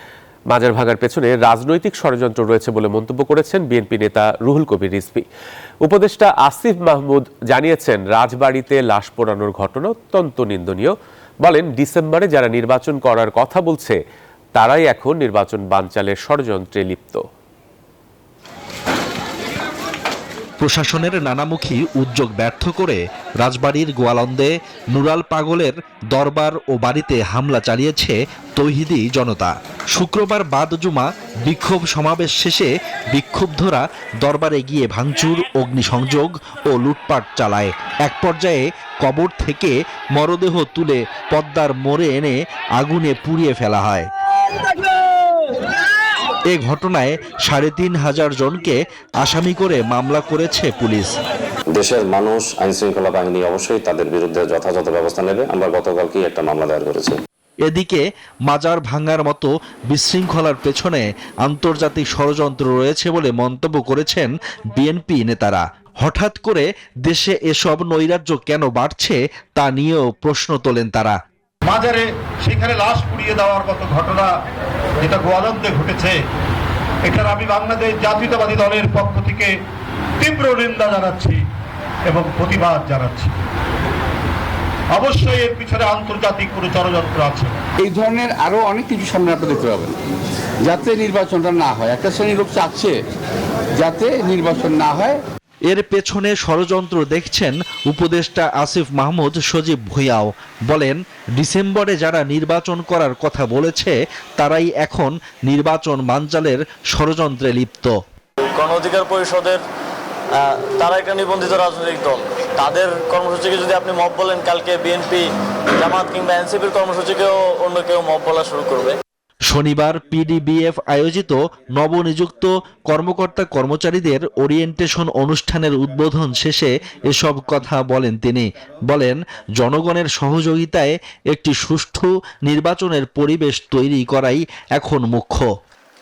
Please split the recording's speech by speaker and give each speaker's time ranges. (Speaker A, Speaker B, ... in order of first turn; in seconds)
Speaker A: 0.5-5.2, 5.8-14.0, 14.5-17.2
Speaker B: 20.6-44.1, 46.5-51.1, 57.6-71.2, 95.7-107.9, 119.5-135.5
Speaker C: 51.7-57.2
Speaker D: 71.7-74.3, 75.0-76.2, 77.1-79.5, 80.2-81.4, 82.1-83.3, 84.9-87.5
Speaker E: 87.8-90.0, 90.6-93.0, 93.8-95.2
Speaker F: 108.5-109.6, 110.3-118.9